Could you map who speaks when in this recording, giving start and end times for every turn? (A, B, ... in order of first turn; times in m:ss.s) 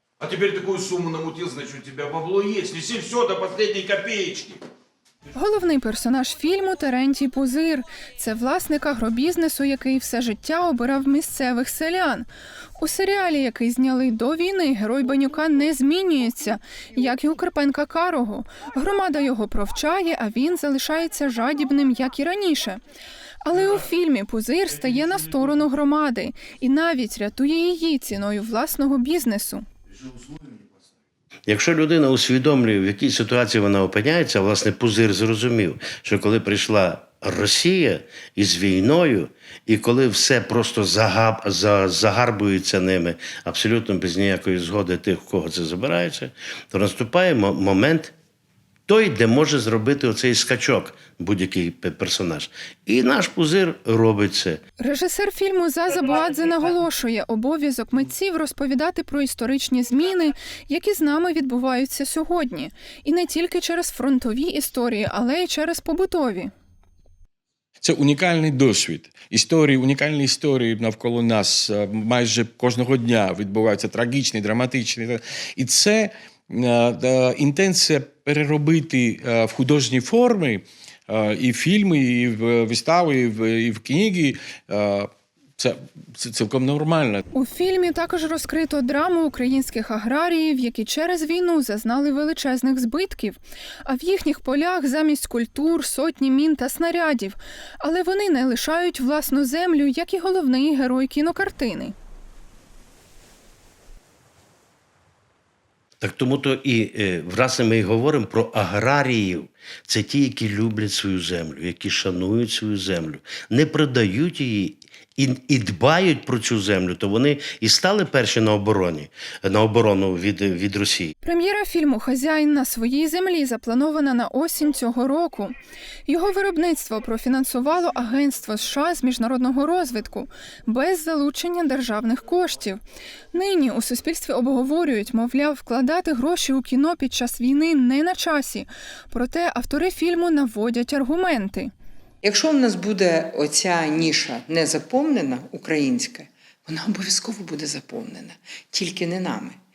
0:00.2-0:04.6 A
0:05.3-0:12.3 B
0:12.8-0:22.8 B
0:23.4-0:29.6 B
0:31.5-0:48.1 C
0:48.9-0:54.6 C
0:54.8-1:06.5 B
1:07.8-1:27.2 D
1:27.3-1:41.9 B
1:46.0-2:01.1 C
2:01.2-2:05.5 B
2:06.0-2:12.8 B
2:13.3-2:21.7 B
2:22.2-2:29.6 E